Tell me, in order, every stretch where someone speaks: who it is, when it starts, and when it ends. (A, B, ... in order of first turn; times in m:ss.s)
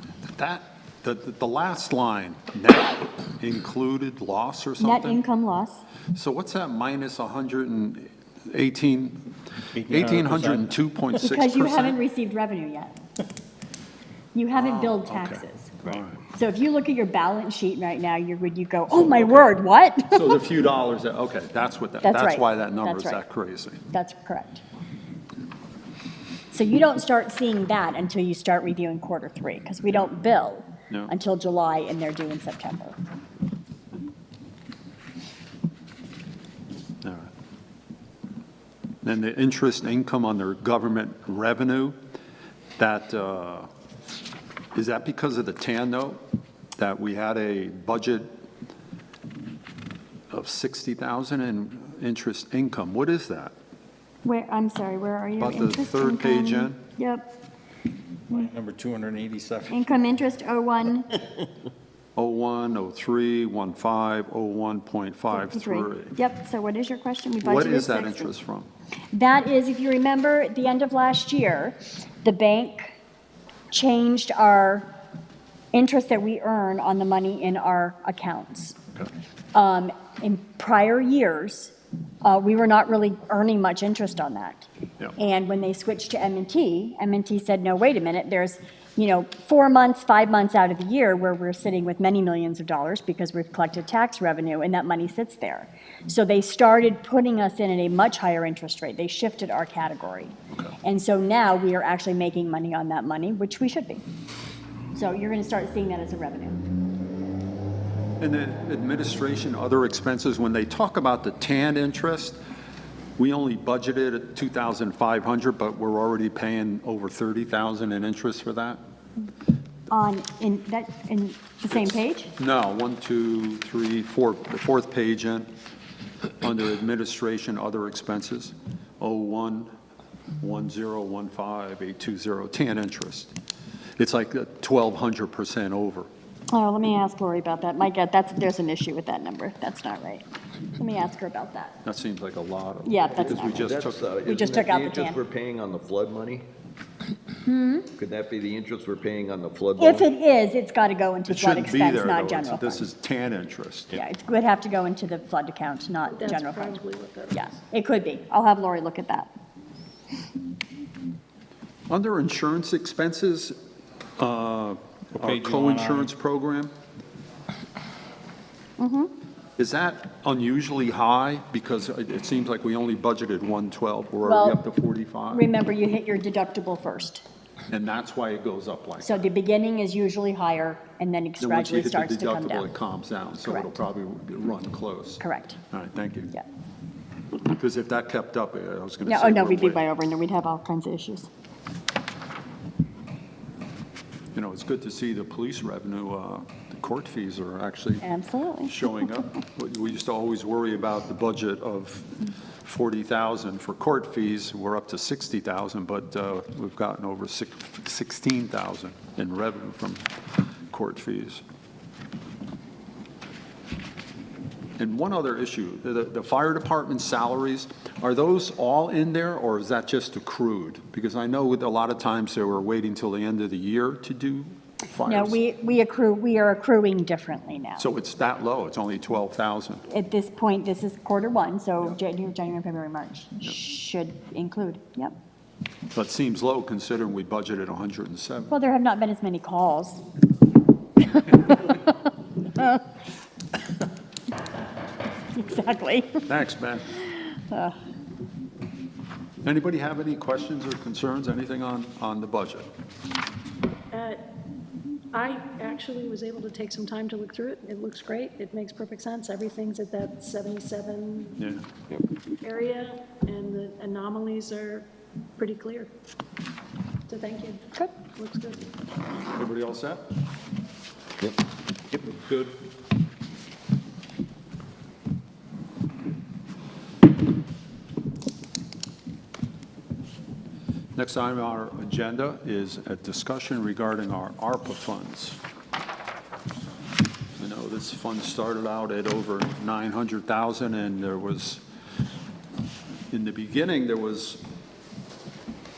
0:00.3-0:05.2 A
0:04.8-0:05.8 B
0:06.1-0:09.3 A
0:09.8-0:10.7 C
0:09.9-0:12.0 A
0:11.2-0:12.9 B
0:14.3-0:15.7 B
0:14.5-0:16.2 A
0:16.3-0:20.4 B
0:18.9-0:19.5 A
0:20.1-0:23.8 A
0:22.0-0:23.2 B
0:23.9-0:24.6 B
0:26.5-0:33.0 B
0:37.0-0:37.3 A
0:39.0-0:42.0 A
0:42.8-0:43.7 A
0:44.7-0:46.2 A
0:46.8-0:48.3 A
0:50.3-0:53.5 A
0:54.2-0:57.3 B
0:55.4-0:56.8 A
0:58.3-0:59.7 C
0:59.7-1:01.1 B
1:02.2-1:06.1 A
1:05.3-1:08.3 B
1:07.4-1:08.7 A
1:09.1-1:12.9 B
1:13.7-1:14.9 B
1:15.7-1:18.8 B
1:19.5-1:44.0 B
1:44.9-1:46.6 B
1:48.2-1:52.4 A
1:53.2-1:58.8 A
1:59.9-2:02.3 B
2:01.7-2:05.5 A
2:06.4-2:09.7 A
2:10.4-2:13.3 A
2:14.0-2:16.1 A
2:16.5-2:21.7 B
2:21.8-2:24.1 A
2:22.8-2:23.6 B
2:23.2-2:26.4 D
2:24.2-2:25.2 B
2:27.4-2:27.9 B
2:28.0-2:30.1 D
2:29.8-2:32.8 B
2:31.3-2:34.0 A
2:33.9-2:36.8 B
2:36.1-2:37.5 E
2:37.3-2:39.3 B
2:41.9-2:43.6 A
2:44.2-2:46.7 A
2:45.2-2:46.1 C
2:48.8-2:49.1 B
2:49.6-2:55.5 A
2:54.2-2:54.6 B
2:55.3-2:57.2 B
2:57.7-2:59.3 A
2:59.0-3:02.7 B
3:01.4-3:06.3 A
3:03.4-3:03.8 B
3:05.2-3:05.6 B
3:07.4-3:09.8 A
3:09.0-3:11.3 B
3:14.3-3:18.0 A
3:18.0-3:18.8 B
3:18.6-3:30.0 A
3:30.7-3:31.4 A
3:34.8-3:45.4 A
3:45.0-3:47.9 B
3:47.8-3:49.8 A
3:49.9-3:55.1 B
3:55.9-3:58.5 A
3:58.5-4:00.0 B
4:01.2-4:01.8 B
4:02.5-4:02.8 B
4:05.3-4:06.3 B
4:06.3-4:06.9 A
4:07.1-4:07.8 B
4:09.4-4:12.7 A
4:13.9-4:14.2 E
4:15.1-4:21.4 E
4:21.4-4:21.6 A
4:22.4-4:24.8 E
4:25.4-4:25.9 E
4:27.1-4:28.7 E
4:29.3-4:30.0 A
4:41.0-4:45.4 A
4:47.4-4:51.6 A
4:53.1-4:54.4 A